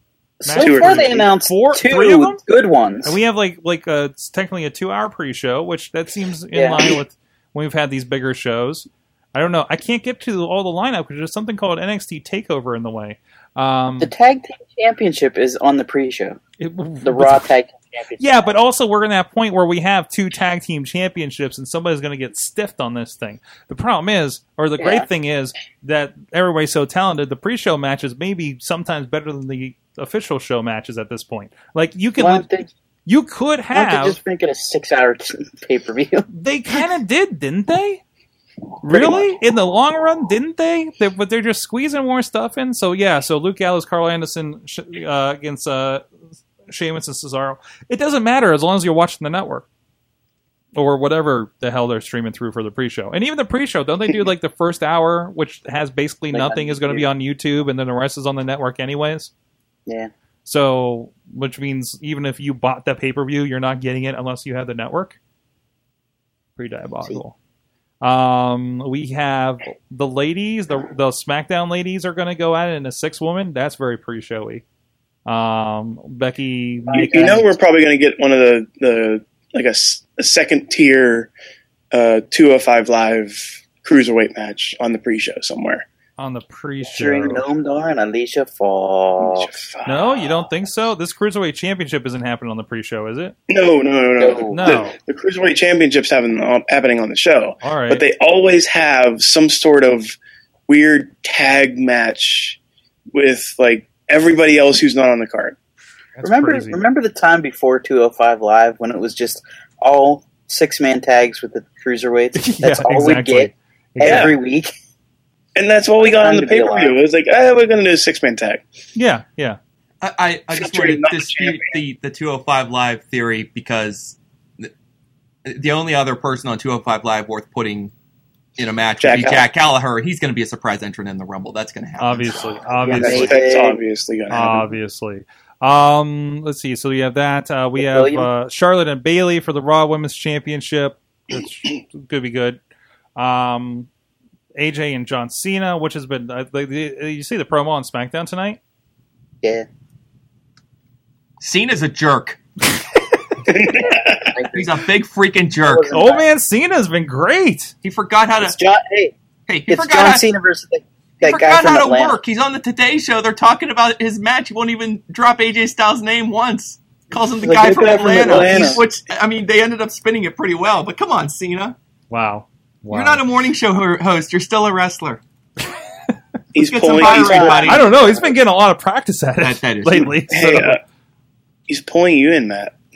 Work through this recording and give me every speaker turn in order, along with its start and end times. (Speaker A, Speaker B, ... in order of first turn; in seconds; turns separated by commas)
Speaker A: 0.4-2.4, Speaker B: 0.4-3.2, Speaker C: 0.5-1.3, Speaker A: 3.0-14.1, Speaker B: 6.5-6.9, Speaker B: 14.0-16.4, Speaker A: 16.6-17.5, Speaker B: 17.0-18.5, Speaker A: 18.2-32.5, Speaker B: 24.8-25.1, Speaker B: 32.2-32.7, Speaker A: 33.1-34.2, Speaker B: 33.7-36.3, Speaker A: 36.3-38.0, Speaker A: 38.8-46.0, Speaker B: 38.9-39.3, Speaker A: 46.7-49.7, Speaker A: 50.8-59.3, Speaker B: 56.3-57.1, Speaker A: 60.5-65.2, Speaker A: 66.6-67.3, Speaker A: 68.0-74.6, Speaker A: 75.3-77.5, Speaker B: 76.9-77.4, Speaker C: 76.9-81.3, Speaker C: 81.9-85.8, Speaker A: 86.2-87.5, Speaker B: 86.8-89.5, Speaker C: 89.2-90.5, Speaker A: 89.9-93.3, Speaker C: 93.5-100.2, Speaker B: 94.2-94.7, Speaker A: 94.5-95.0, Speaker A: 97.6-98.0, Speaker C: 100.7-102.6, Speaker C: 103.1-105.6, Speaker A: 106.2-106.8, Speaker B: 106.2-114.7, Speaker A: 112.4-114.3, Speaker C: 114.0-114.3, Speaker C: 115.6-118.6, Speaker B: 116.0-117.0, Speaker A: 119.0-119.6, Speaker D: 120.0-124.7, Speaker C: 120.5-121.7, Speaker D: 125.5-127.9, Speaker D: 128.6-132.5, Speaker C: 129.0-129.5, Speaker A: 132.0-133.4, Speaker B: 132.8-133.8, Speaker C: 132.8-134.7, Speaker A: 134.3-142.6, Speaker B: 137.8-138.3, Speaker A: 143.2-143.9, Speaker A: 144.6-148.6, Speaker D: 151.4-152.4, Speaker C: 153.5-154.3, Speaker B: 154.3-154.8, Speaker D: 154.5-155.9, Speaker B: 155.6-156.2, Speaker A: 155.9-157.7, Speaker D: 157.8-158.6, Speaker B: 158.4-159.1, Speaker D: 159.5-160.2, Speaker B: 159.7-162.2, Speaker D: 161.2-171.8, Speaker B: 167.3-168.8, Speaker A: 172.1-173.2, Speaker D: 172.9-175.2, Speaker C: 176.6-177.8, Speaker D: 176.6-177.8, Speaker B: 177.0-178.3, Speaker A: 177.7-180.8, Speaker D: 179.4-180.1, Speaker C: 180.3-180.8, Speaker C: 181.7-182.8